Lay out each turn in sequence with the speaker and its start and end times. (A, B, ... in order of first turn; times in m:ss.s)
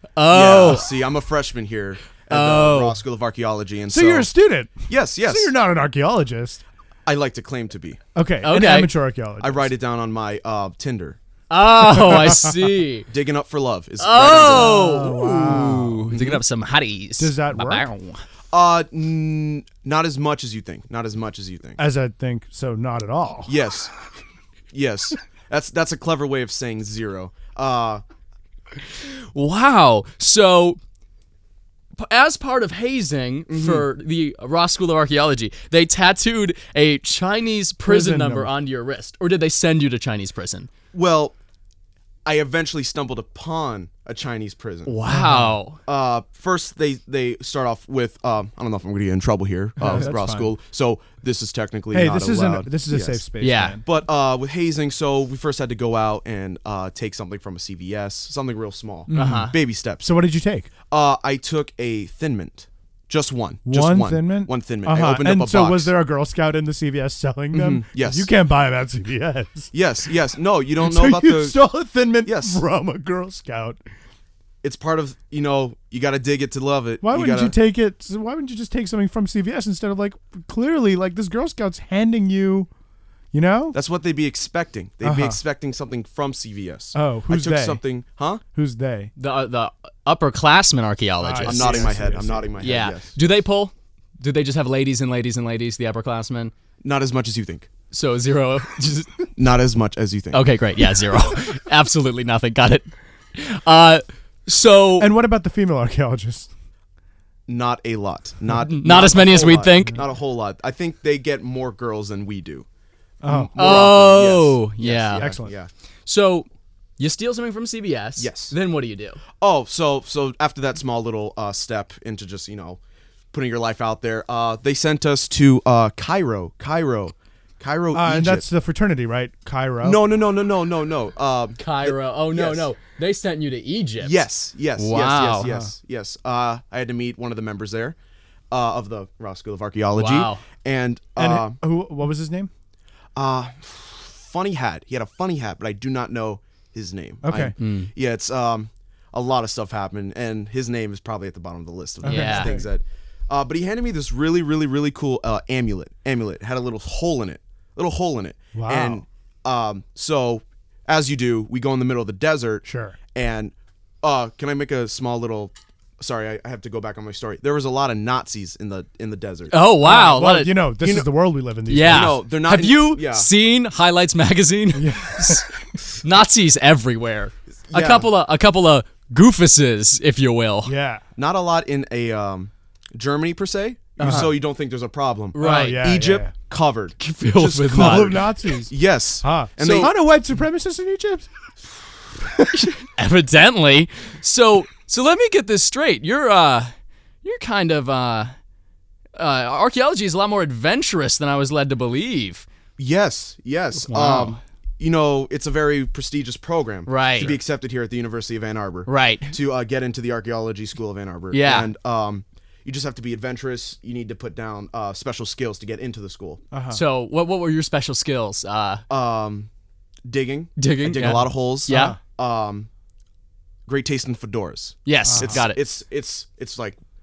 0:00.2-0:00.9 A
0:00.3-0:04.3 B
0:02.3-0:03.0 A
0:03.9-0:06.6 C
0:04.9-0:05.5 B
0:07.0-0:08.0 B
0:08.1-0:09.7 C
0:08.4-0:08.9 A
0:09.4-0:11.2 B
0:11.5-0:13.1 A
0:11.9-0:12.6 C
0:13.1-0:14.8 B
0:14.0-0:18.2 A
0:14.4-0:16.1 C
0:16.1-0:16.4 B
0:17.2-0:17.9 C
0:18.5-0:21.8 B
0:21.8-0:23.5 C
0:23.5-0:23.9 B
0:24.7-0:28.0 B
0:28.9-0:30.8 A
0:32.0-0:40.7 A
0:33.5-0:33.9 B
0:37.8-0:38.5 C
0:40.9-0:41.3 B
0:42.2-0:44.9 B
0:44.8-0:45.8 A
0:45.1-0:45.6 C
0:45.8-0:53.2 B
0:49.8-0:50.5 C
0:51.9-0:53.8 C
0:53.4-0:53.8 A
0:53.8-1:00.1 B
0:59.1-1:00.7 C
0:59.1-0:59.5 A
1:00.9-1:05.9 B
1:03.6-1:09.7 C
1:07.5-1:08.3 B
1:09.7-1:11.6 B
1:10.8-1:13.8 C
1:12.2-1:12.6 B
1:14.6-1:17.5 B
1:17.0-1:22.7 C
1:23.3-1:23.8 C
1:23.7-1:28.4 B
1:25.0-1:25.4 C
1:26.9-1:27.8 C
1:28.5-1:29.1 C
1:29.2-1:31.9 A
1:31.2-1:32.5 C
1:31.4-1:33.2 B
1:32.6-1:36.5 A
1:36.8-1:37.7 B
1:37.9-1:39.1 A
1:39.4-1:40.4 B
1:40.3-1:45.1 A
1:45.0-1:46.5 C
1:47.5-1:52.6 B
1:48.6-1:50.0 A
1:53.2-1:53.5 C
1:53.2-1:55.7 B
1:53.6-1:55.3 A
1:55.1-1:55.5 C
1:56.0-1:56.5 A
1:57.0-1:59.2 A
1:58.2-1:58.5 B
1:59.4-2:02.8 B
2:03.3-2:08.4 B
2:07.9-2:10.0 C
2:09.8-2:12.7 B
2:11.6-2:14.2 A
2:14.0-2:17.9 B
2:14.8-2:15.5 A
2:15.4-2:15.7 C
2:18.5-2:21.6 B
2:19.9-2:20.4 A
2:21.2-2:22.5 C
2:23.2-2:49.5 B
2:27.2-2:27.5 C
2:27.6-2:27.9 A
2:32.0-2:32.5 A
2:32.0-2:32.7 C
2:38.5-2:39.0 C
2:42.6-2:43.0 C
2:49.5-2:50.5 A
2:49.8-2:52.1 C
2:50.8-2:51.1 B
2:51.7-2:55.5 A
2:51.7-2:53.3 B
2:54.7-2:55.5 C
2:56.0-3:00.7 A
2:57.7-2:58.1 B
3:00.6-3:01.0 C
3:01.2-3:09.9 B
3:04.0-3:04.3 A
3:04.0-3:04.3 C
3:05.3-3:05.8 A
3:05.4-3:06.3 C
3:07.0-3:08.2 A
3:07.7-3:11.3 C
3:09.6-3:09.9 A
3:12.3-3:12.7 C
3:12.9-3:18.3 A
3:19.2-3:22.4 A
3:22.8-3:36.4 B
3:23.9-3:24.4 A
3:26.8-3:27.4 A
3:28.8-3:29.3 A
3:31.3-3:31.7 A
3:36.5-3:36.8 C
3:36.7-3:38.8 A
3:38.9-3:39.5 B
3:40.1-3:42.7 B
3:40.6-3:42.0 A
3:41.7-3:42.0 C
3:43.7-3:46.8 B
3:44.8-3:45.6 A
3:45.0-3:45.4 C